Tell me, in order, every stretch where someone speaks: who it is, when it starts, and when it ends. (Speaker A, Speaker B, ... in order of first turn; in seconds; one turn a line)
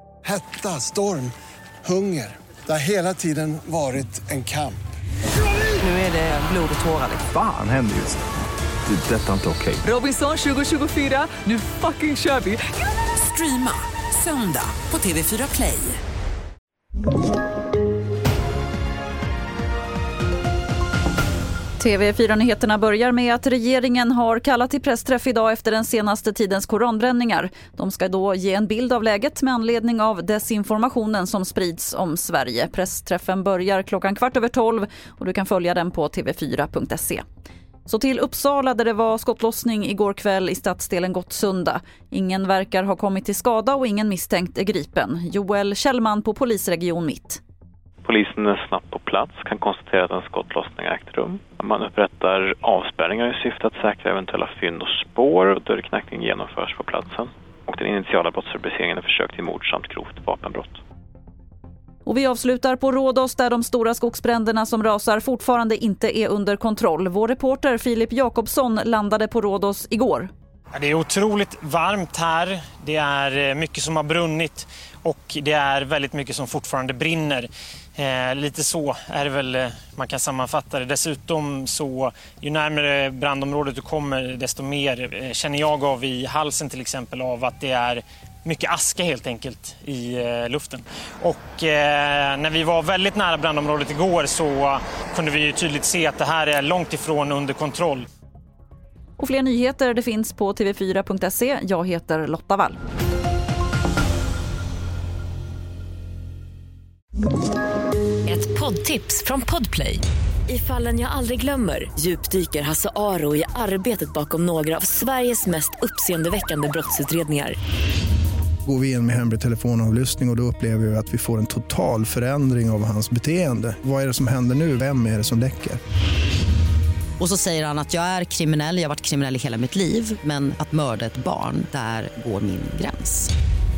Speaker A: 0.2-1.3
Speaker A: 1.8-4.8
Speaker B: 5.8-7.2
Speaker C: 7.2-8.2
Speaker C: 8.9-9.8
Speaker B: 9.8-16.0
Speaker D: 21.8-37.2
Speaker D: 37.9-47.4
Speaker E: 48.0-60.8
Speaker D: 62.1-70.3
Speaker F: 70.7-98.1
Speaker D: 99.2-102.8
Speaker G: 108.3-117.6
Speaker H: 118.7-125.8
Speaker I: 127.2-133.3